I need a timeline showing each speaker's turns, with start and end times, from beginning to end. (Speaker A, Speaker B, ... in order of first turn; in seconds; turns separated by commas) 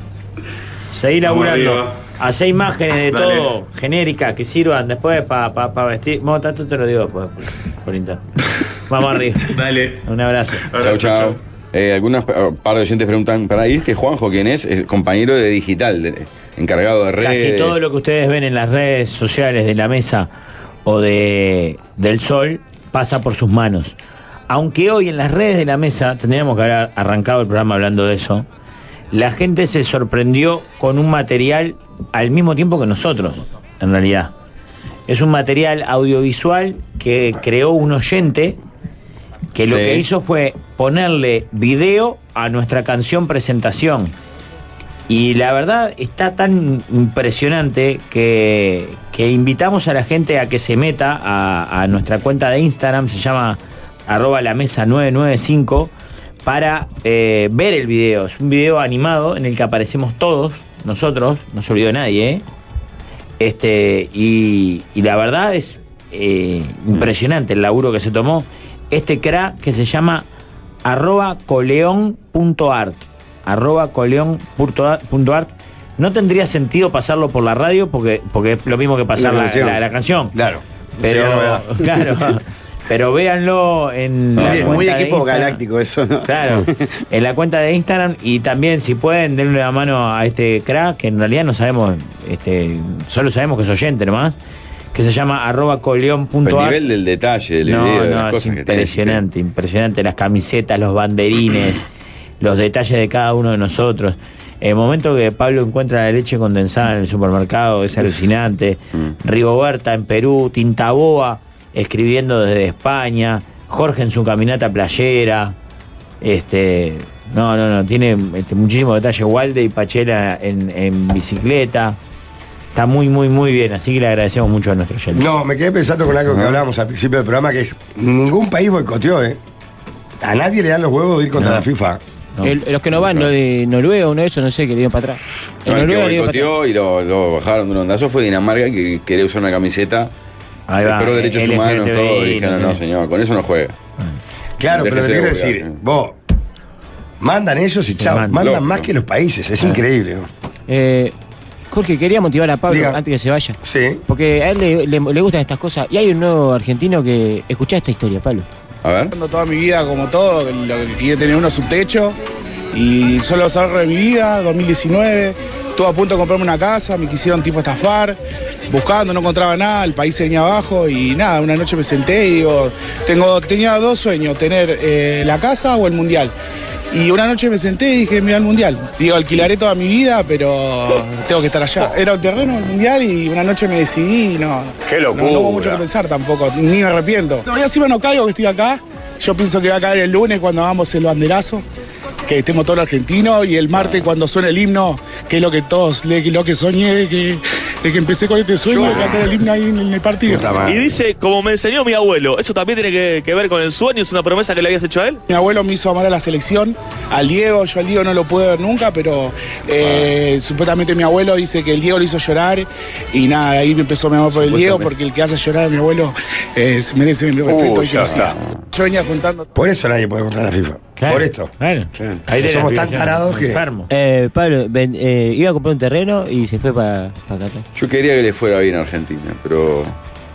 Speaker A: 0.9-8.2, Speaker B: 1.2-1.9, Speaker B: 3.1-3.5, Speaker A: 8.9-9.5, Speaker B: 9.4-10.0, Speaker A: 10.1-10.7, Speaker B: 10.7-11.4, Speaker C: 10.8-17.8, Speaker A: 17.2-20.3, Speaker A: 20.9-24.0, Speaker A: 24.5-28.5, Speaker A: 29.1-34.3, Speaker A: 35.1-38.6, Speaker A: 39.5-44.1, Speaker C: 39.7-40.1, Speaker A: 45.1-55.9, Speaker A: 56.4-62.4, Speaker A: 63.4-70.3, Speaker A: 70.8-80.3, Speaker D: 79.2-79.8, Speaker E: 80.3-81.6, Speaker A: 81.0-85.6, Speaker C: 84.4-84.8, Speaker D: 84.4-86.9, Speaker A: 86.2-94.4, Speaker A: 94.9-96.8, Speaker C: 96.5-99.2, Speaker A: 97.7-101.9, Speaker A: 102.4-115.5, Speaker A: 116.2-122.0, Speaker A: 122.7-125.3, Speaker E: 125.1-129.4, Speaker C: 126.3-126.6, Speaker E: 130.2-132.0, Speaker A: 131.4-131.6, Speaker F: 132.4-136.5, Speaker C: 132.9-133.3, Speaker C: 135.7-140.1, Speaker A: 140.7-142.8, Speaker C: 140.8-143.8, Speaker E: 144.6-146.2, Speaker C: 144.7-145.8, Speaker E: 147.2-150.3, Speaker A: 147.9-148.5, Speaker C: 148.3-148.9, Speaker F: 150.7-151.1, Speaker F: 151.7-153.6, Speaker E: 152.7-153.0, Speaker E: 153.6-154.0, Speaker F: 154.1-158.5, Speaker C: 158.8-159.1, Speaker G: 159.1-162.2, Speaker G: 162.7-168.2, Speaker G: 168.7-176.3, Speaker G: 176.9-191.7, Speaker E: 184.9-185.8, Speaker G: 192.3-200.6, Speaker C: 193.7-194.1, Speaker E: 198.7-199.3, Speaker E: 200.3-200.9, Speaker H: 200.7-205.2, Speaker G: 205.3-219.5, Speaker C: 214.4-214.8, Speaker E: 217.5-218.4, Speaker C: 218.1-218.6, Speaker E: 219.6-221.5, Speaker A: 221.0-223.9, Speaker E: 222.3-223.6, Speaker F: 223.9-227.6, Speaker C: 227.8-229.9